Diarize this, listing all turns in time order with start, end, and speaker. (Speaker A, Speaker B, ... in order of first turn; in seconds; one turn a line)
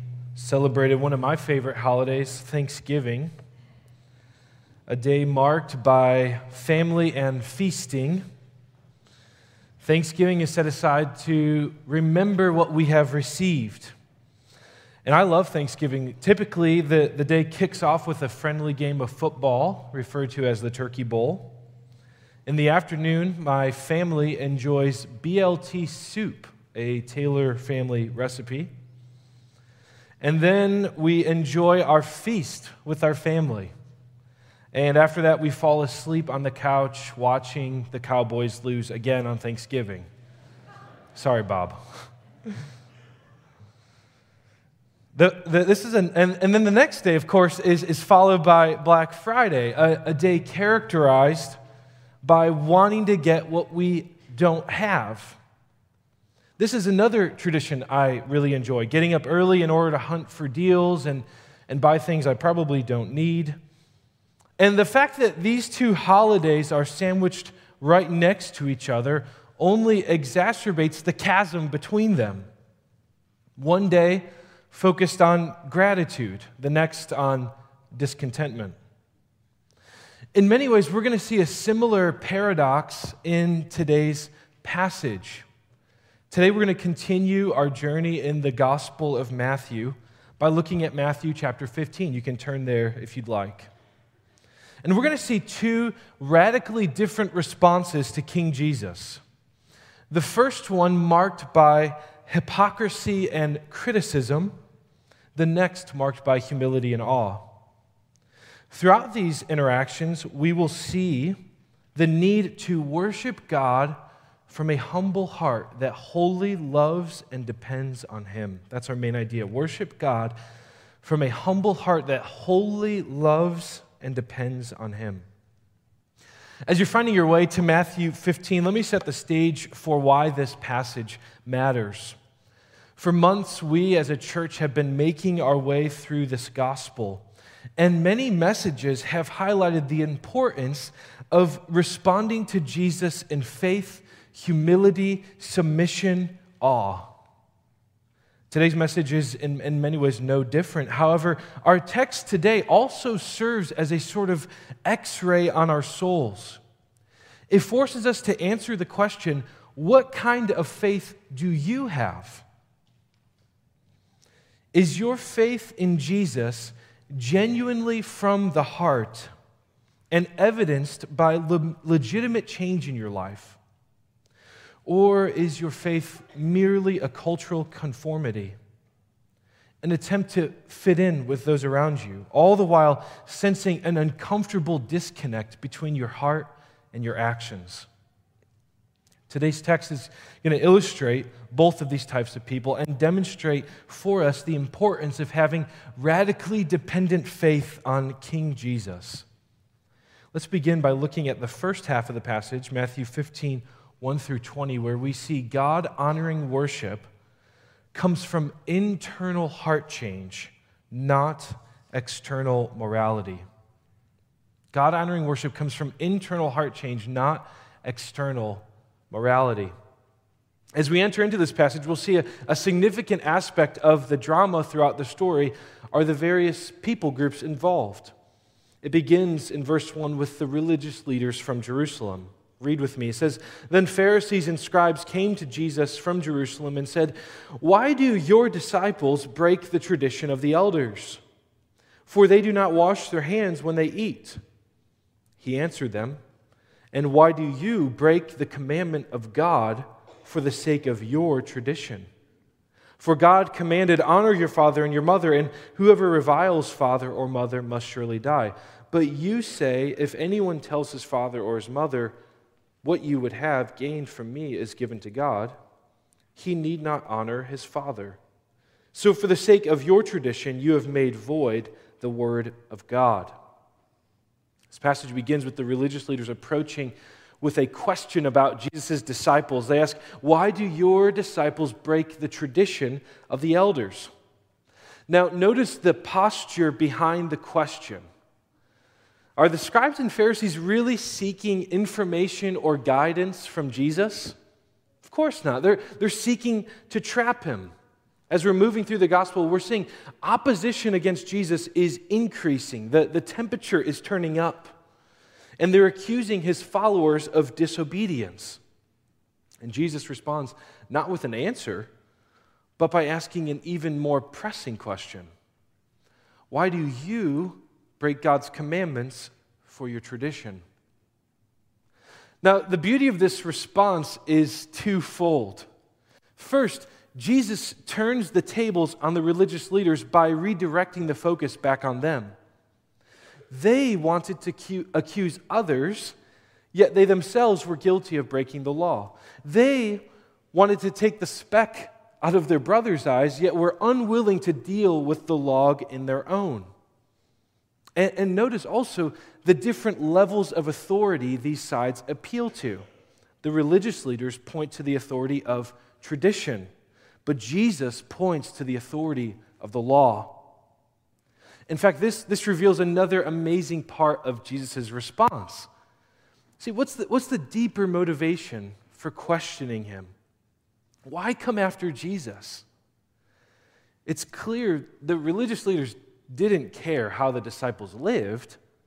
Speaker A: 0.3-3.3
Speaker A: 4.9-8.2
Speaker A: 9.8-13.9
Speaker A: 15.0-21.6
Speaker A: 22.4-28.7
Speaker A: 30.2-33.7
Speaker A: 34.7-40.1
Speaker A: 41.1-41.8
Speaker A: 45.1-51.6
Speaker A: 52.2-55.4
Speaker A: 56.6-63.6
Speaker A: 64.6-72.5
Speaker A: 73.6-78.8
Speaker A: 80.3-85.5
Speaker A: 86.3-93.7
Speaker A: 94.8-99.2
Speaker A: 100.1-104.6
Speaker A: 105.3-107.5
Speaker A: 108.7-111.4
Speaker A: 112.0-114.0
Speaker A: 114.5-120.4
Speaker A: 121.0-125.2
Speaker A: 126.7-132.2
Speaker A: 133.0-137.2
Speaker A: 137.8-147.2
Speaker A: 148.5-156.6
Speaker A: 157.5-162.4
Speaker A: 164.7-169.3
Speaker A: 170.1-173.6
Speaker A: 174.8-178.6
Speaker A: 179.8-187.9
Speaker A: 189.3-199.2
Speaker A: 200.3-207.1
Speaker A: 207.9-213.4
Speaker A: 214.7-219.7
Speaker A: 220.8-228.1
Speaker A: 228.8-241.2
Speaker A: 242.1-244.4
Speaker A: 245.4-246.2
Speaker A: 246.9-252.1
Speaker A: 253.0-262.1
Speaker A: 262.8-265.6
Speaker A: 266.3-268.2
Speaker A: 268.9-273.3
Speaker A: 274.7-284.1
Speaker A: 285.1-288.0
Speaker A: 289.4-294.4
Speaker A: 295.0-297.7
Speaker A: 298.3-304.8
Speaker A: 305.6-308.6
Speaker A: 309.6-311.9
Speaker A: 312.8-315.3
Speaker A: 316.5-320.6
Speaker A: 322.4-325.7
Speaker A: 326.4-332.3
Speaker A: 333.5-336.1
Speaker A: 336.7-346.7
Speaker A: 348.0-352.8
Speaker A: 353.4-356.7
Speaker A: 357.2-360.4
Speaker A: 361.7-365.7
Speaker A: 366.6-370.1
Speaker A: 371.1-372.6
Speaker A: 374.1-378.6